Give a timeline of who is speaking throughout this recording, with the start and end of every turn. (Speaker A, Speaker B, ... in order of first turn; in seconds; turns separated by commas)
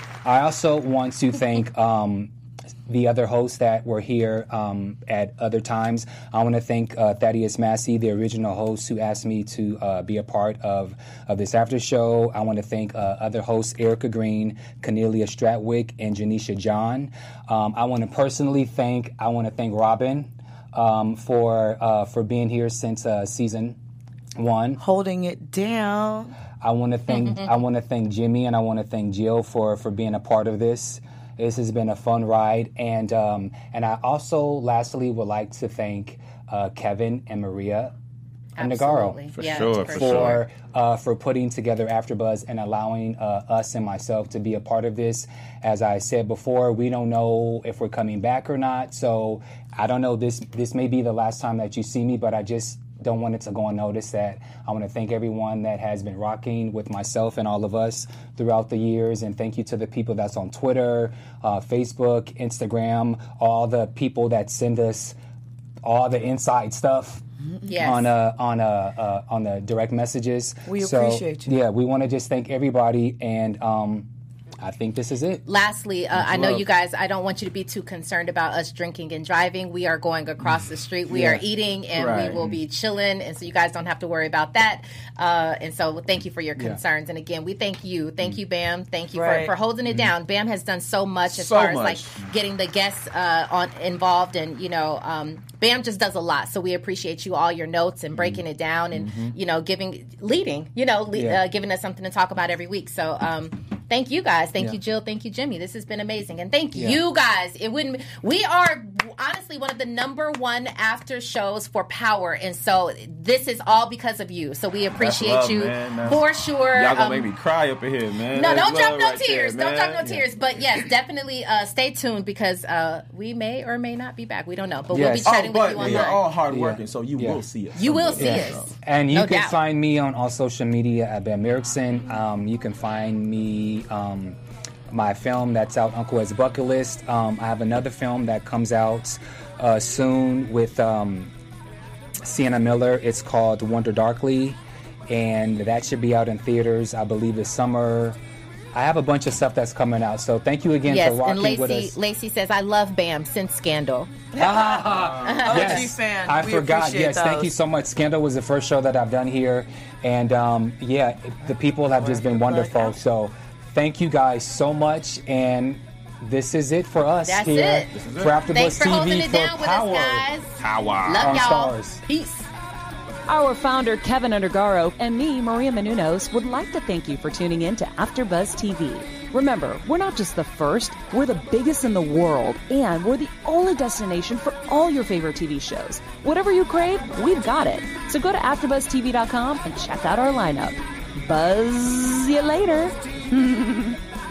Speaker A: 0.2-2.3, Speaker A: 2.9-23.8, Speaker A: 24.4-24.8, Speaker B: 24.8-26.3, Speaker A: 26.6-37.9, Speaker C: 27.1-27.4, Speaker C: 38.6-40.4, Speaker A: 38.6-65.2, Speaker D: 39.3-40.4, Speaker A: 65.8-67.2, Speaker C: 67.6-68.1, Speaker A: 67.7-74.1, Speaker B: 70.7-71.5, Speaker A: 74.6-75.4, Speaker C: 75.5-117.3, Speaker D: 76.1-76.6, Speaker A: 81.1-81.4, Speaker D: 81.9-82.6, Speaker B: 89.1-89.5, Speaker D: 91.3-92.3, Speaker D: 98.2-98.4, Speaker D: 98.9-99.3, Speaker A: 101.1-101.4, Speaker A: 106.7-107.0, Speaker D: 115.0-120.8, Speaker C: 118.3-126.2, Speaker A: 124.9-127.4, Speaker D: 125.2-128.7, Speaker C: 127.8-129.6, Speaker A: 128.2-134.4, Speaker A: 134.9-141.3, Speaker A: 142.2-148.2, Speaker A: 148.7-151.9, Speaker C: 150.8-154.1, Speaker B: 154.3-157.5, Speaker A: 154.3-170.3, Speaker D: 155.1-155.3, Speaker C: 155.2-155.9, Speaker B: 161.8-163.0, Speaker C: 167.2-167.9, Speaker D: 167.9-168.4, Speaker C: 168.5-172.5, Speaker D: 170.6-171.3, Speaker A: 171.2-172.0, Speaker E: 173.3-194.0